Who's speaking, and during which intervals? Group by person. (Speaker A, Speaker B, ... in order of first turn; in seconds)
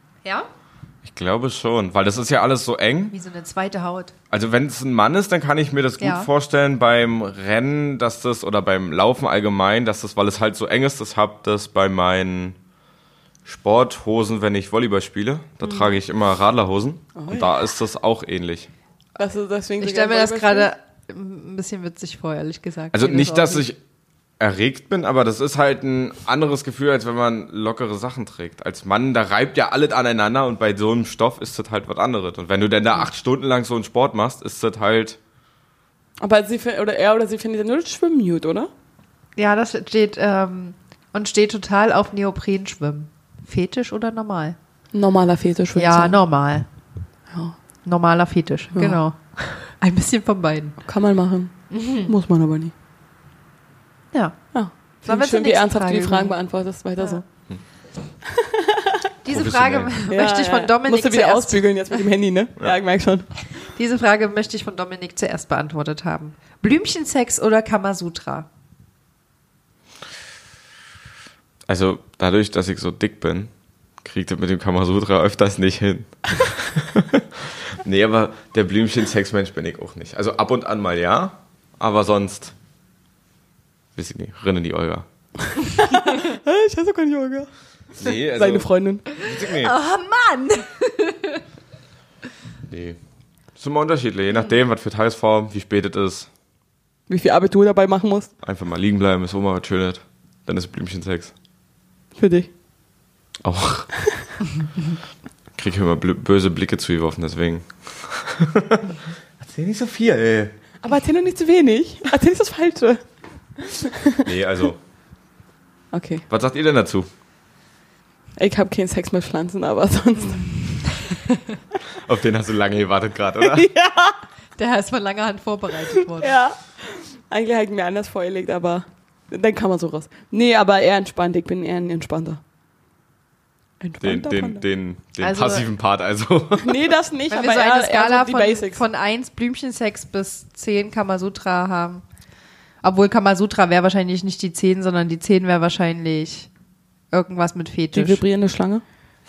Speaker A: 1.0-3.1, 4.3-12.6, 13.4-18.7, 22.9-23.8, 24.4-35.2, 59.3-59.9, 71.7-73.5, 74.0-82.5, 84.0-85.0, 88.0-89.7, 92.7-93.0, 93.5-96.3, 98.4-101.3, 103.4-103.9, 105.6-110.5, 114.2-114.8, 116.3-117.1, 121.9-123.7, 134.0-136.9
Speaker B: 3.1-4.1, 6.0-6.3, 15.6-15.9, 19.8-23.6, 39.4-44.5, 45.8-46.6, 47.8-50.8, 51.7-52.1, 54.1-54.4, 55.0-56.4, 59.2-61.7, 63.6-68.5, 89.2-91.4, 124.6-126.4, 135.2-135.7, 137.3-142.0, 142.8-146.5, 147.1-148.2
Speaker C: 17.1-17.5, 19.2-20.7, 36.2-38.7, 44.9-46.2, 47.3-47.6, 48.7-49.0, 50.8-52.7, 54.5-57.2, 58.2-59.0, 60.1-63.3, 85.9-89.0, 97.1-98.3, 102.1-102.5, 110.8-113.0, 113.5-114.2, 115.9-116.2, 118.4-120.8, 123.4-124.2, 126.0-132.4, 133.8-134.6, 136.6-138.8, 147.9-148.8